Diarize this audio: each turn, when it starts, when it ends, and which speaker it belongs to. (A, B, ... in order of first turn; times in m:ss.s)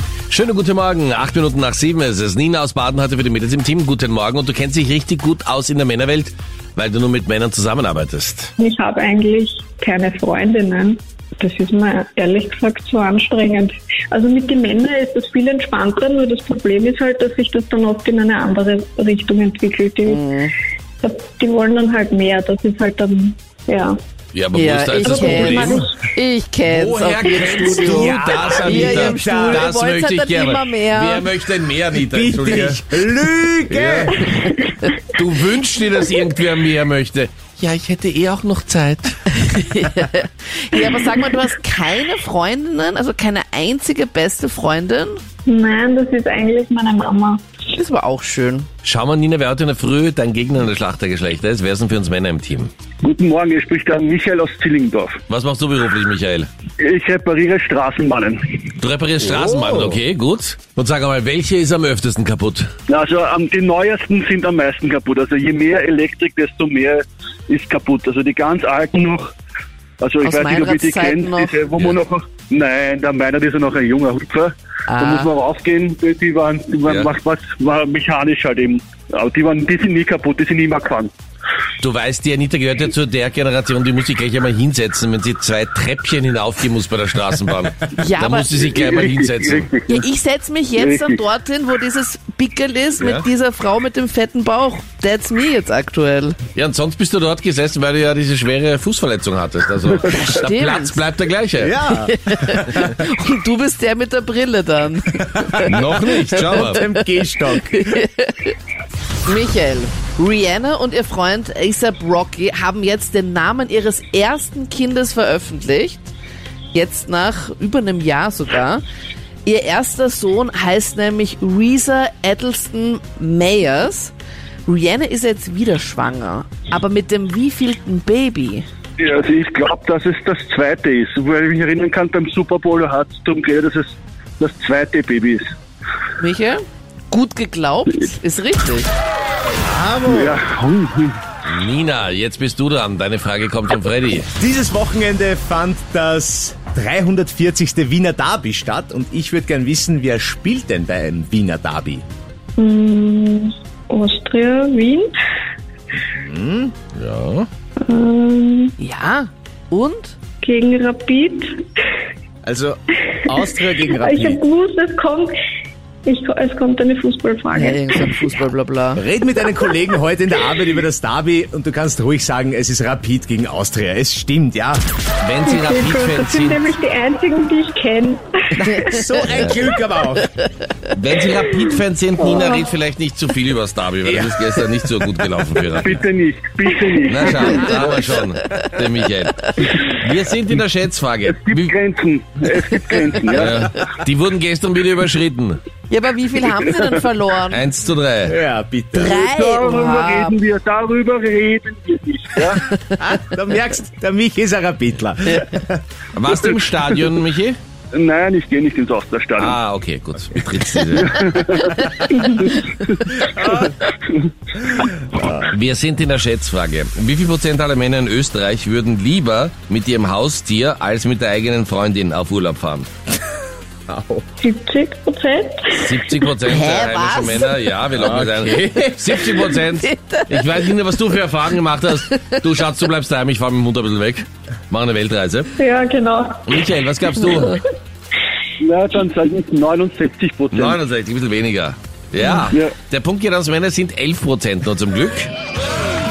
0:00.3-0:08.5 A
0:08.6-0:20.2 B
0:20.0-0:20.5 C
0:21.0-0:24.0 B
0:24.3-0:25.9 A
0:24.5-0:31.3 C
0:25.0-0:26.1 B
0:26.6-0:32.8 A
0:27.7-0:29.7 D
0:32.0-0:34.4 D
0:33.7-0:39.2 A
0:39.3-0:45.2 C
0:45.4-0:47.4 B
0:47.7-0:48.7 C
0:48.8-0:52.7 A
0:53.0-0:55.2 E
0:55.3-0:56.5 A
0:56.8-0:58.6 E
0:58.8-1:02.7 A
0:59.3-0:59.9 D
1:02.9-1:09.3 E
1:10.0-1:21.1 E
1:10.2-1:11.6 C
1:11.7-1:12.0 A
1:14.9-1:15.3 C
1:16.8-1:17.1 A
1:21.8-1:29.7 A
1:28.0-1:28.6 C
1:28.7-1:30.0 E
1:29.9-1:36.4 C
1:30.8-1:31.2 E
1:33.0-1:33.2 A
1:36.5-1:41.7 A
1:40.0-1:41.0 C
1:41.6-1:43.0 D
1:42.0-1:47.0 C
1:45.2-1:48.0 D
1:45.6-1:46.8 A
1:47.5-1:48.5 C
1:49.2-1:56.1 C
1:56.7-1:58.8 C
1:59.4-2:04.1 C
2:04.6-2:08.6 C
2:09.0-2:15.5 E
2:16.2-2:18.9 C
2:19.6-2:20.4 D
2:20.1-2:21.2 E
2:21.4-2:24.3 A
2:24.4-2:32.0 D
2:32.6-2:35.1 B
2:36.0-2:36.7 D
2:36.9-2:37.5 A
2:37.8-2:38.7 B
2:38.8-2:40.2 C
2:40.4-2:41.6 B
2:42.4-2:44.4 D
2:44.0-2:45.3 B
2:46.0-2:48.2 B
2:47.5-2:49.0 C
2:49.0-2:54.8 D
2:55.2-2:56.6 A
2:55.4-2:58.2 B
2:58.6-3:00.3 D
2:58.7-2:59.6 C
2:59.3-2:59.6 A
3:00.9-3:06.0 A
3:02.2-3:02.7 B
3:04.0-3:04.6 D
3:05.8-3:07.7 E
3:07.0-3:11.7 A
3:07.2-3:08.5 C
3:11.2-3:13.8 E
3:13.3-3:15.6 A
3:15.9-3:17.6 C
3:17.5-3:18.3 A
3:18.3-3:19.2 D
3:18.9-3:20.4 C
3:19.1-3:22.7 E
3:23.0-3:25.8 D
3:26.1-3:27.6 A
3:26.3-3:27.1 E
3:27.9-3:29.6 E
3:29.4-3:31.6 A
3:31.0-3:32.6 E
3:31.6-3:32.0 C
3:33.1-3:33.7 D
3:33.6-3:34.3 E
3:34.7-3:35.5 D
3:35.4-3:42.9 A
3:43.9-3:44.2 D
3:44.4-3:46.1 B
3:45.7-3:55.5 A
3:46.4-3:47.6 C
3:47.9-3:49.4 D
3:49.2-3:50.7 C
3:52.1-3:52.3 C
3:55.6-3:56.4 B
3:56.5-3:57.6 A
3:58.6-4:00.8 E
4:00.5-4:05.3 A
4:02.2-4:02.5 C
4:02.5-4:02.7 E